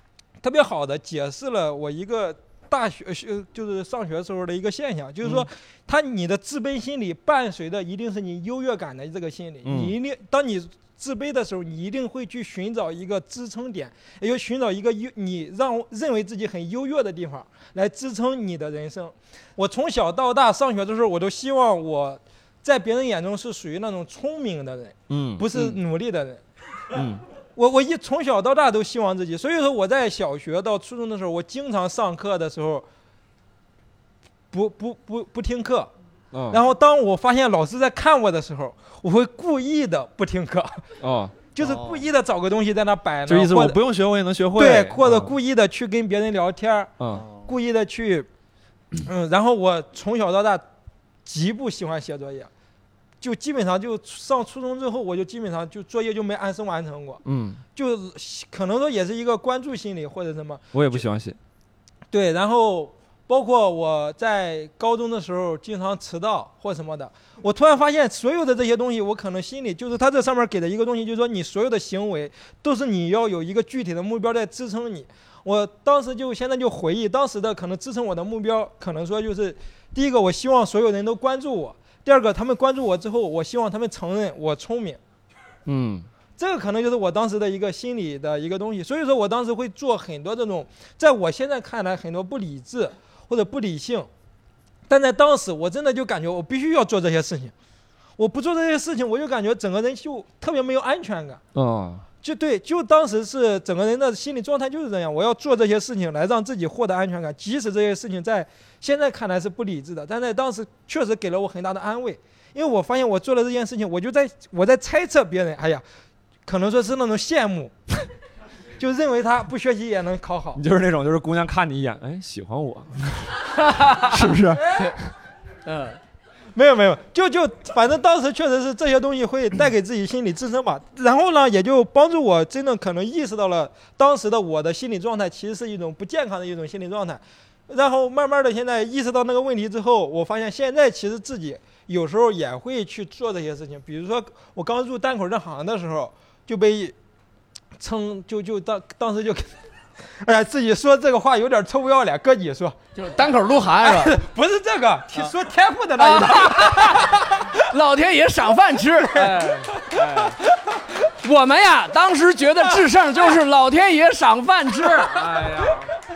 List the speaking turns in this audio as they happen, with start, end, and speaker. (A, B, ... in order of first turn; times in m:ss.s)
0:00.4-0:26.4 A
0:09.6-0:09.9 B
0:25.1-0:25.5 B
0:26.9-0:27.2 B
0:27.6-0:32.9 A
0:34.5-0:35.9 A
0:36.3-0:36.6 B
0:36.5-0:40.9 A
0:41.0-0:41.4 B
0:41.5-0:43.8 A
0:41.6-0:42.0 C
0:43.2-0:45.3 B
0:44.5-0:46.9 A
0:47.0-0:47.2 B
0:47.4-0:48.3 A
0:49.0-0:50.6 A
0:51.2-0:52.5 A
0:53.2-0:57.2 A
0:57.2-0:57.6 B
0:57.7-1:01.0 A
1:00.7-1:01.4 B
1:02.1-1:25.0 A
1:25.6-1:26.1 B
1:26.4-1:34.1 A
1:34.9-1:37.5 A
1:38.2-1:41.4 A
1:41.5-1:42.0 B
1:42.2-1:55.8 A
1:56.4-1:57.7 A
1:58.8-2:00.6 A
2:00.5-2:05.1 B
2:03.6-2:04.1 C
2:05.6-2:06.0 C
2:06.5-2:26.9 A
2:27.8-2:29.5 A
2:30.2-2:32.8 A
2:32.9-2:34.2 C
2:33.8-2:37.5 A
2:36.0-2:40.4 C
2:39.1-2:39.9 A
2:41.0-2:45.9 C
2:45.3-2:45.6 A